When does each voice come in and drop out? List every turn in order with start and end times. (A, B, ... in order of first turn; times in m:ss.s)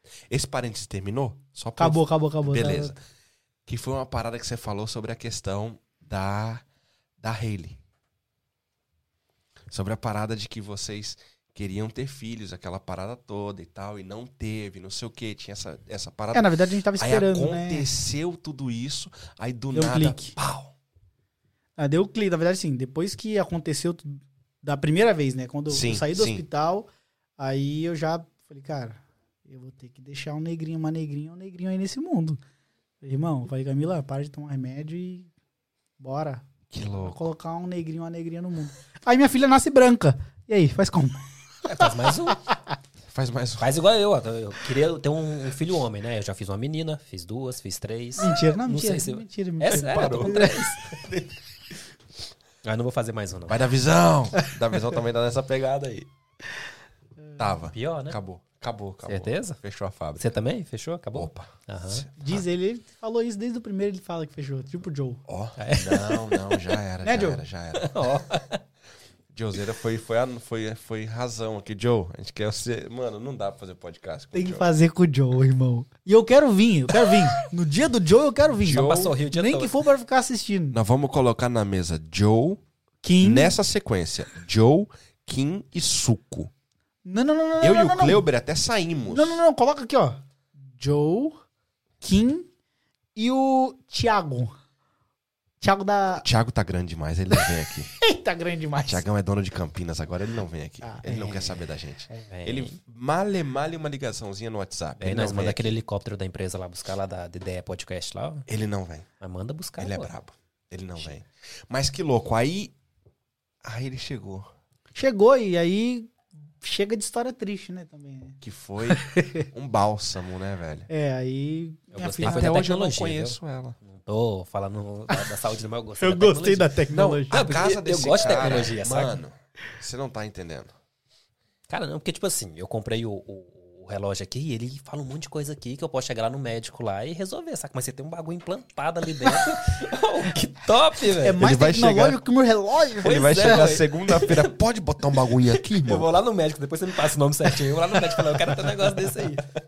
0:00.3-0:03.0 A
0:01.8-0:03.0 B
0:03.7-0:06.6 A
0:07.2-0:07.8 A
0:09.7-0:20.7 A
0:16.3-0:17.9 B
0:19.7-0:20.4 B
0:21.8-0:32.4 B
0:25.7-0:26.4 A
0:33.0-0:35.3 B
0:36.0-0:42.5 B
0:36.7-0:37.3 A
0:41.6-0:42.4 C
0:43.1-0:43.7 A
0:43.6-0:50.9 C
0:48.2-0:50.7 B
0:49.7-0:51.4 A
0:52.6-0:53.6 C
0:53.5-0:56.1 A
0:57.4-1:00.4 A
0:57.7-0:58.2 C
0:59.1-0:59.6 C
1:00.2-1:02.1 C
1:01.1-1:02.4 A
1:02.2-1:05.2 B
1:05.3-1:08.0 A
1:05.6-1:06.4 C
1:07.0-1:07.4 B
1:07.8-1:08.6 C
1:09.3-1:14.7 A
1:14.3-1:20.8 B
1:18.6-1:19.2 A
1:18.7-1:19.8 C
1:20.7-1:22.6 A
1:23.0-1:23.6 B
1:23.2-1:26.5 A
1:27.0-1:28.2 B
1:27.6-1:29.4 A
1:29.1-1:30.2 B
1:30.8-1:31.4 B
1:32.0-1:32.5 B
1:33.2-1:34.5 B
1:35.6-1:36.2 B
1:36.2-1:37.9 A
1:37.4-1:39.0 B
1:38.8-1:45.7 A
1:40.8-1:42.3 B
1:42.3-1:42.8 C
1:45.0-1:48.5 C
1:48.5-1:49.1 A
1:49.2-1:50.1 C
1:49.8-1:52.8 A
1:53.6-1:54.5 A
1:55.0-1:59.5 B
1:58.4-2:00.9 A
2:00.9-2:02.6 B
2:01.9-2:06.7 C
2:02.2-2:03.8 A
2:06.0-2:07.4 B
2:06.9-2:10.7 A
2:07.3-2:09.2 C
2:11.7-2:21.4 C
2:21.2-2:23.6 B
2:21.4-2:22.2 A
2:23.0-2:26.1 A
2:23.0-2:24.6 C
2:25.1-2:29.5 C
2:27.7-2:29.3 A